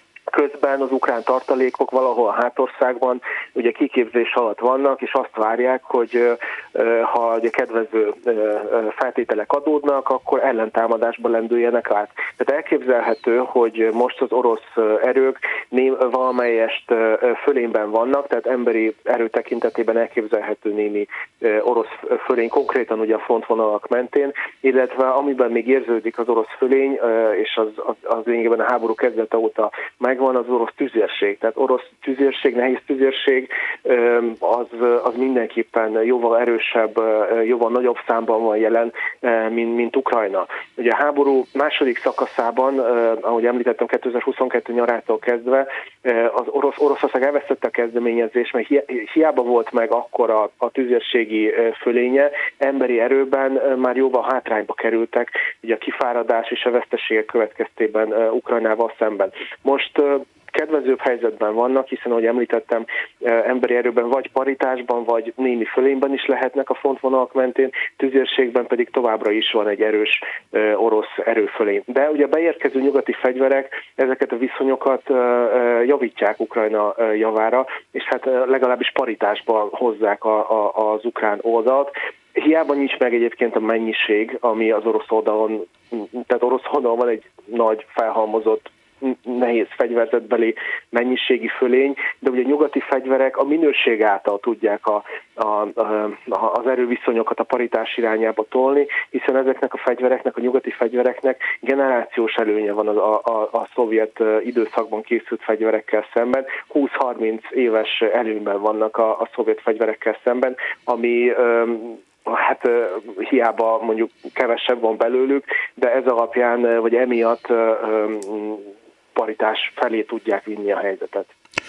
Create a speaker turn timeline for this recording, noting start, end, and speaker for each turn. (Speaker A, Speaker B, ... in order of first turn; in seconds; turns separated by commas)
Speaker A: 0.3-121.3